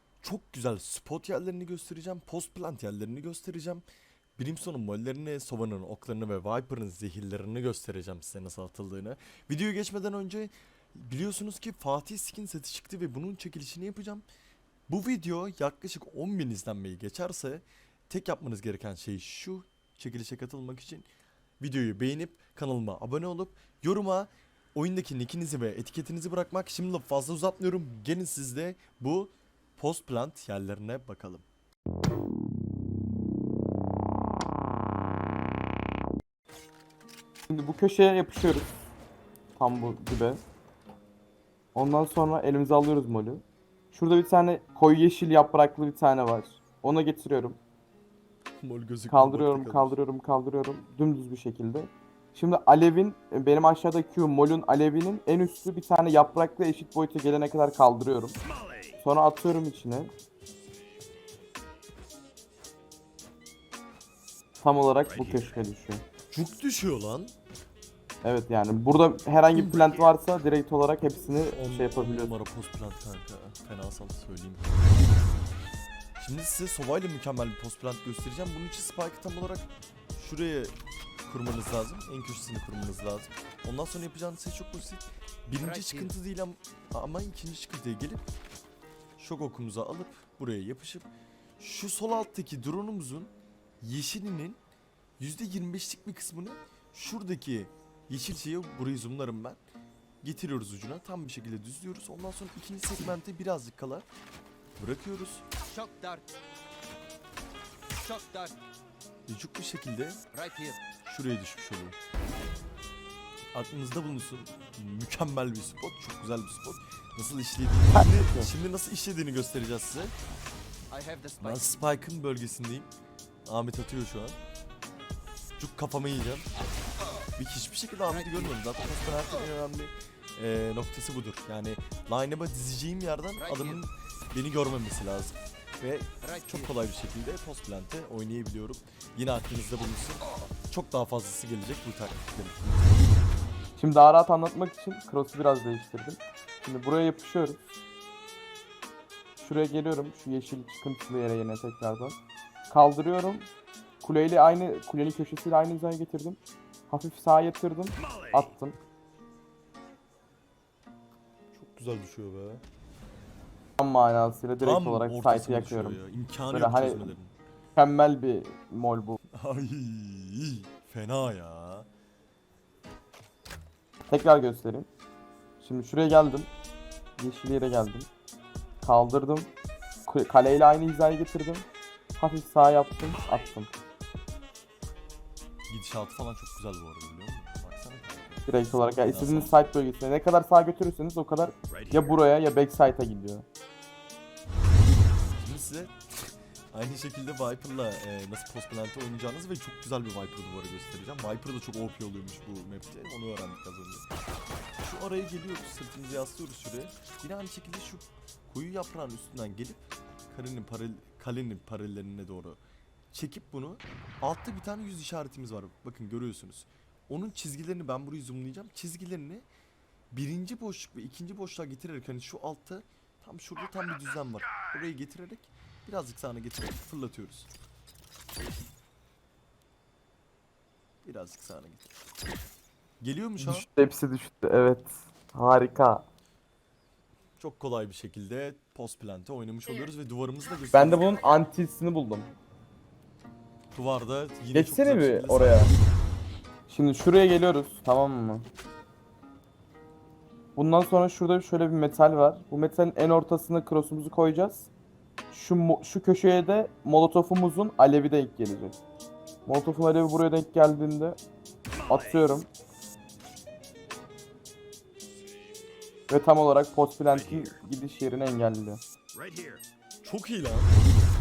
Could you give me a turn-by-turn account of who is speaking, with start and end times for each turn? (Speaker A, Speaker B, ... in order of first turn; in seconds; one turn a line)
Speaker A: 0.2-3.8
Speaker A: 4.4-14.2
Speaker A: 14.9-21.1
Speaker A: 21.6-31.4
Speaker B: 37.5-38.7
Speaker B: 39.6-40.4
Speaker B: 41.7-47.6
Speaker A: 48.6-50.0
Speaker B: 49.1-58.4
Speaker B: 59.0-60.1
Speaker B: 64.6-66.0
Speaker A: 66.3-67.3
Speaker B: 68.2-72.3
Speaker A: 69.5-70.1
Speaker A: 71.2-75.0
Speaker A: 76.2-88.2
Speaker C: 85.6-86.1
Speaker A: 89.2-94.6
Speaker A: 95.2-99.6
Speaker A: 100.2-104.0
Speaker A: 104.8-105.4
Speaker C: 105.6-106.3
Speaker C: 108.0-108.6
Speaker A: 109.3-110.2
Speaker C: 110.3-110.8
Speaker A: 111.0-112.0
Speaker A: 113.5-120.1
Speaker B: 117.9-118.5
Speaker C: 120.9-121.8
Speaker A: 121.4-122.9
Speaker A: 123.5-124.4
Speaker A: 125.6-126.5
Speaker A: 127.4-143.1
Speaker C: 128.1-128.6
Speaker C: 133.4-133.8
Speaker C: 136.2-136.7
Speaker B: 143.8-147.6
Speaker B: 149.4-152.2
Speaker B: 152.7-153.5
Speaker B: 154.0-158.8
Speaker A: 161.5-162.6
Speaker B: 163.8-167.1
Speaker A: 164.6-167.3
Speaker B: 167.8-169.2
Speaker A: 169.3-171.9
Speaker B: 174.1-174.9
Speaker B: 175.6-176.5
Speaker B: 177.2-178.1
Speaker B: 178.8-179.5
Speaker B: 180.1-181.7
Speaker B: 182.2-183.7
Speaker A: 185.7-189.5
Speaker B: 188.5-193.4
Speaker A: 195.4-204.1
Speaker A: 204.8-212.6
Speaker A: 213.1-219.4
Speaker A: 220.1-227.5
Speaker A: 231.0-231.9
Speaker A: 233.0-233.7
Speaker B: 233.4-236.1
Speaker A: 237.4-241.2
Speaker B: 240.7-242.3
Speaker A: 243.7-245.8
Speaker B: 244.5-245.7
Speaker B: 246.7-248.5
Speaker B: 250.6-254.7
Speaker B: 255.3-258.8
Speaker B: 259.4-261.2
Speaker B: 261.9-262.5
Speaker B: 266.1-268.8
Speaker A: 270.0-270.8